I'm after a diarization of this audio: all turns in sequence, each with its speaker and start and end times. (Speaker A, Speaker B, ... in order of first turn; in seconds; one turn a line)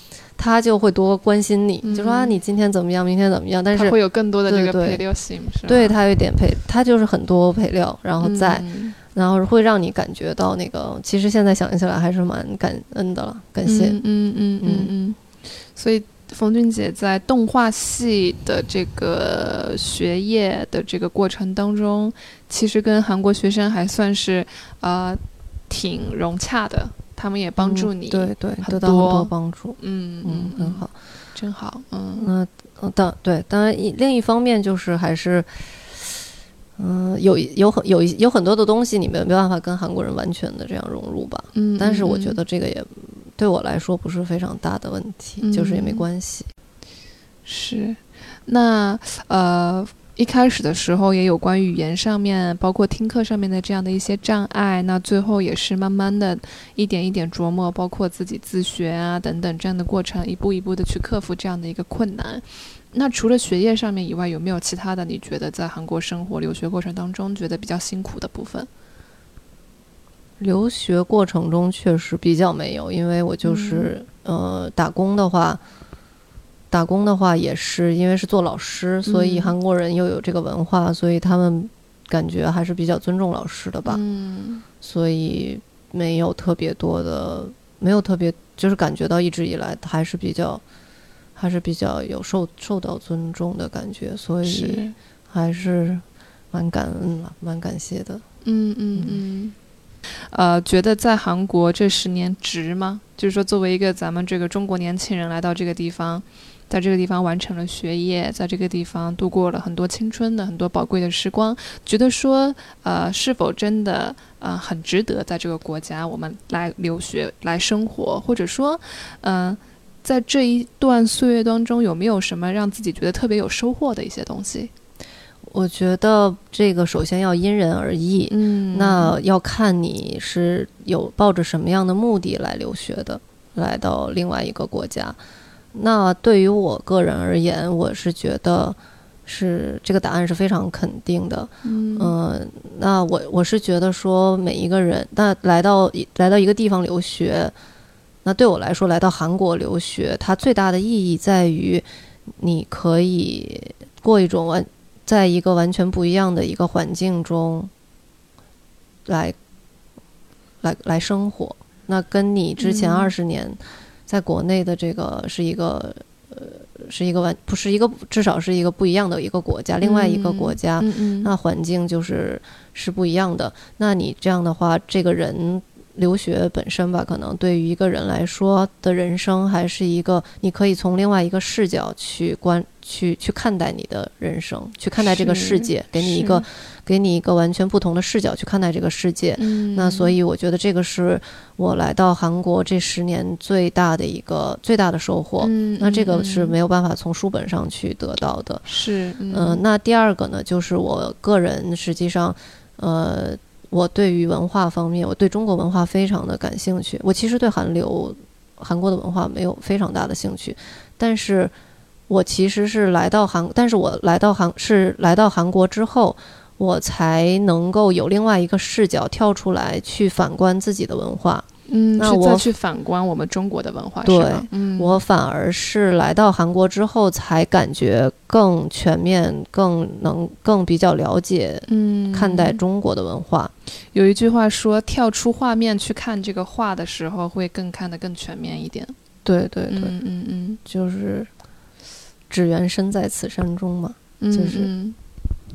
Speaker A: 0.4-5.0
Speaker B: 1.8-2.4
Speaker B: 3.7-6.0
Speaker A: 5.7-14.0
Speaker B: 8.2-8.9
Speaker B: 13.6-15.2
Speaker A: 14.6-14.9
Speaker B: 15.7-32.3
Speaker A: 27.6-30.9
Speaker A: 32.2-35.5
Speaker A: 36.8-46.5
Speaker B: 41.5-42.4
Speaker B: 45.4-46.0
Speaker B: 47.4-68.7
Speaker A: 70.4-75.6
Speaker B: 73.4-73.9
Speaker A: 76.7-84.0
Speaker B: 79.0-79.5
Speaker B: 83.8-84.6
Speaker A: 84.8-90.6
Speaker A: 91.3-98.2
Speaker B: 94.4-94.9
Speaker B: 98.4-99.5
Speaker A: 98.9-99.2
Speaker B: 100.3-124.7
Speaker A: 125.5-135.2
Speaker B: 128.3-129.1
Speaker A: 135.7-147.5
Speaker B: 141.6-142.2
Speaker A: 148.2-151.8
Speaker A: 152.4-157.7
Speaker A: 159.1-159.3
Speaker A: 160.6-198.6
Speaker B: 162.6-163.1
Speaker B: 169.8-171.3
Speaker B: 185.0-186.4
Speaker B: 189.4-190.2
Speaker B: 195.4-196.6
Speaker B: 198.7-199.6
Speaker A: 199.3-211.5
Speaker A: 212.1-221.4
Speaker B: 221.7-225.0
Speaker A: 222.0-222.5
Speaker A: 224.0-233.5
Speaker B: 231.7-232.6
Speaker B: 233.9-238.9
Speaker A: 239.2-239.9
Speaker B: 239.7-240.6
Speaker A: 240.7-241.3
Speaker A: 242.3-244.7
Speaker B: 244.2-245.0